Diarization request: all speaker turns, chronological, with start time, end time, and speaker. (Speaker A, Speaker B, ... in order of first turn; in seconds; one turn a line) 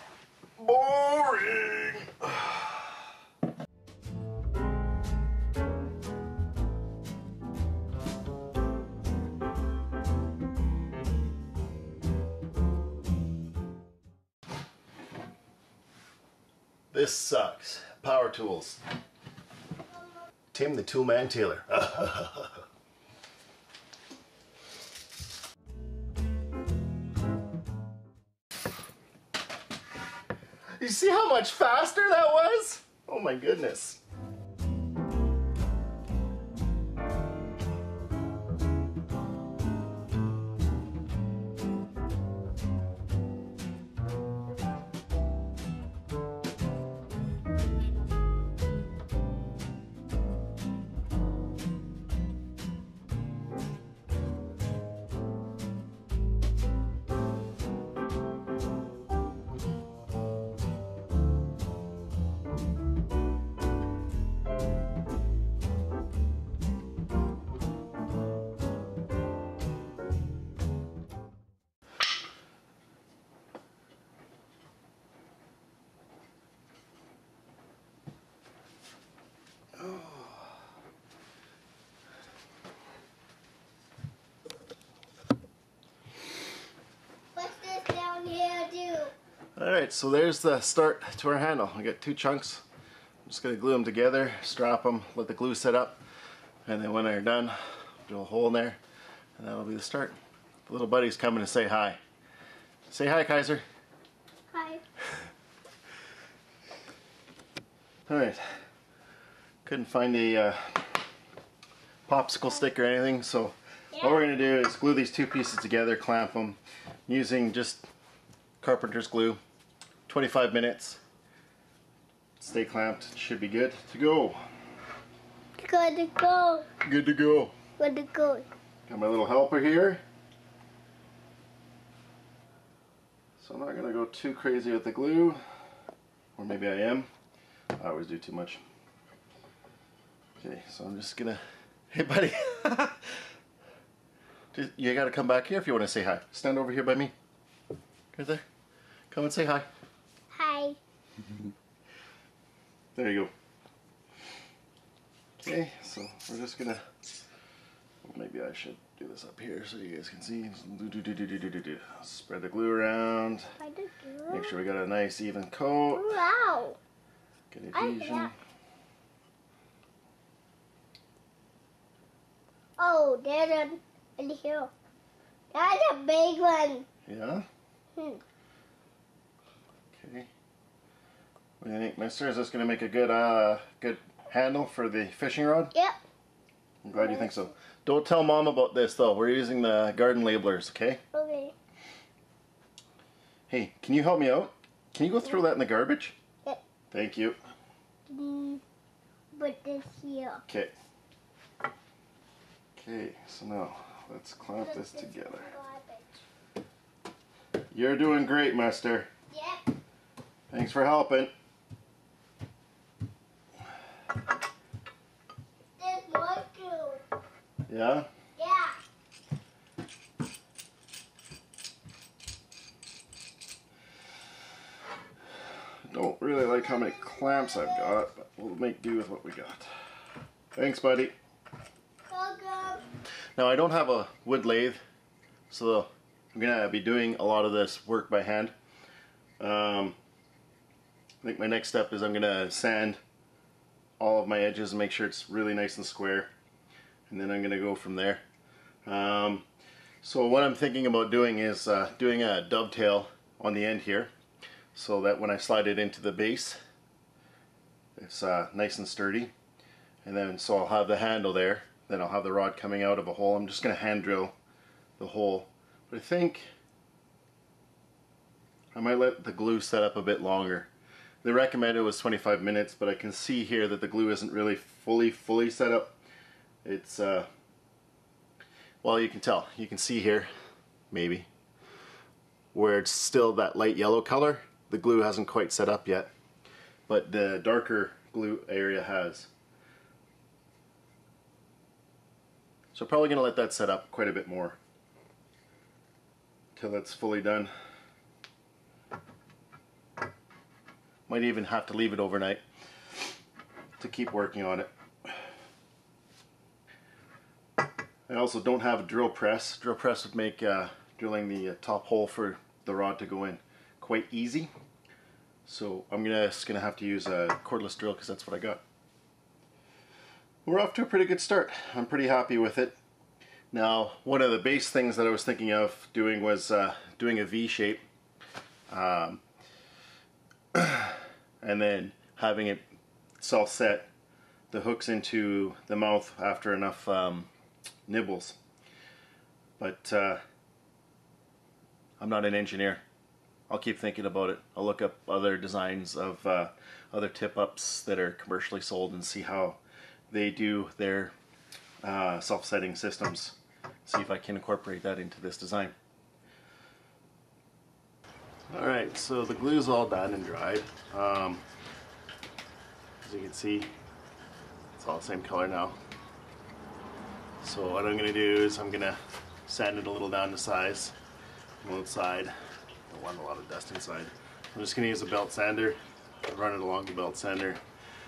Speaker A: 0.6-2.9
Speaker A: 16.9-18.8
Speaker A: 20.5-22.6
Speaker A: 30.8-34.0
Speaker A: 79.8-80.6
Speaker B: 87.3-89.1
Speaker A: 89.6-92.6
Speaker A: 93.3-96.0
Speaker A: 96.7-98.8
Speaker A: 99.4-100.2
Speaker A: 100.7-102.0
Speaker A: 102.9-103.6
Speaker B: 104.5-104.8
Speaker A: 108.1-108.5
Speaker A: 109.7-111.1
Speaker A: 112.1-117.9
Speaker B: 113.9-114.2
Speaker A: 118.6-119.4
Speaker A: 120.1-121.0
Speaker A: 122.4-124.4
Speaker B: 125.6-126.7
Speaker A: 126.8-127.5
Speaker B: 127.8-128.5
Speaker A: 128.9-130.0
Speaker A: 133.4-135.4
Speaker A: 136.4-137.1
Speaker A: 137.7-138.6
Speaker A: 140.4-143.2
Speaker A: 144.5-147.1
Speaker A: 148.1-148.4
Speaker A: 149.1-149.7
Speaker B: 150.3-150.8
Speaker A: 152.9-153.3
Speaker A: 155.4-156.9
Speaker A: 158.0-163.5
Speaker B: 163.6-164.5
Speaker A: 164.3-166.2
Speaker B: 165.9-166.8
Speaker A: 167.5-168.3
Speaker B: 167.7-168.3
Speaker B: 172.8-174.7
Speaker B: 175.5-176.9
Speaker A: 177.1-177.5
Speaker B: 178.0-178.2
Speaker A: 179.9-180.3
Speaker A: 181.6-185.7
Speaker B: 185.7-186.0
Speaker A: 186.8-191.0
Speaker B: 187.0-187.4
Speaker B: 191.1-191.5
Speaker A: 193.5-196.2
Speaker A: 196.9-197.4
Speaker B: 198.1-198.6
Speaker B: 199.3-200.4
Speaker A: 200.5-200.8
Speaker A: 202.8-205.5
Speaker B: 204.6-206.1
Speaker A: 207.7-209.1
Speaker B: 209.3-209.6
Speaker A: 210.5-211.3
Speaker B: 215.8-217.0
Speaker A: 217.7-218.1
Speaker B: 218.4-218.8
Speaker A: 225.9-229.7
Speaker B: 226.6-228.0
Speaker A: 230.5-231.1
Speaker B: 232.1-232.8
Speaker A: 233.4-234.8
Speaker A: 235.5-238.6
Speaker A: 239.4-240.0
Speaker A: 241.2-243.0
Speaker A: 244.0-246.3
Speaker A: 247.1-248.2
Speaker A: 248.8-249.5
Speaker A: 250.0-254.1
Speaker A: 254.7-256.6
Speaker A: 258.0-259.3
Speaker A: 260.0-264.4
Speaker A: 265.0-266.5
Speaker A: 268.7-270.7
Speaker A: 271.2-276.0
Speaker A: 276.6-277.3
Speaker A: 278.8-280.3
Speaker A: 280.9-281.3
Speaker A: 282.5-286.1
Speaker A: 286.9-289.3
Speaker A: 292.7-294.6
Speaker A: 296.6-297.5
Speaker A: 301.1-302.4
Speaker A: 303.8-305.2
Speaker A: 308.1-314.5
Speaker A: 315.5-318.6
Speaker A: 320.4-322.8
Speaker A: 323.5-327.8
Speaker A: 328.7-329.2
Speaker A: 330.5-332.6
Speaker A: 333.2-333.9
Speaker A: 334.5-337.3
Speaker A: 337.9-338.4
Speaker A: 339.6-340.2
Speaker A: 342.0-342.8
Speaker A: 343.5-351.1
Speaker A: 351.8-355.8
Speaker A: 358.5-361.4
Speaker A: 363.0-363.7
Speaker A: 364.8-365.8
Speaker A: 367.4-371.0
Speaker A: 371.6-372.4
Speaker A: 372.9-377.6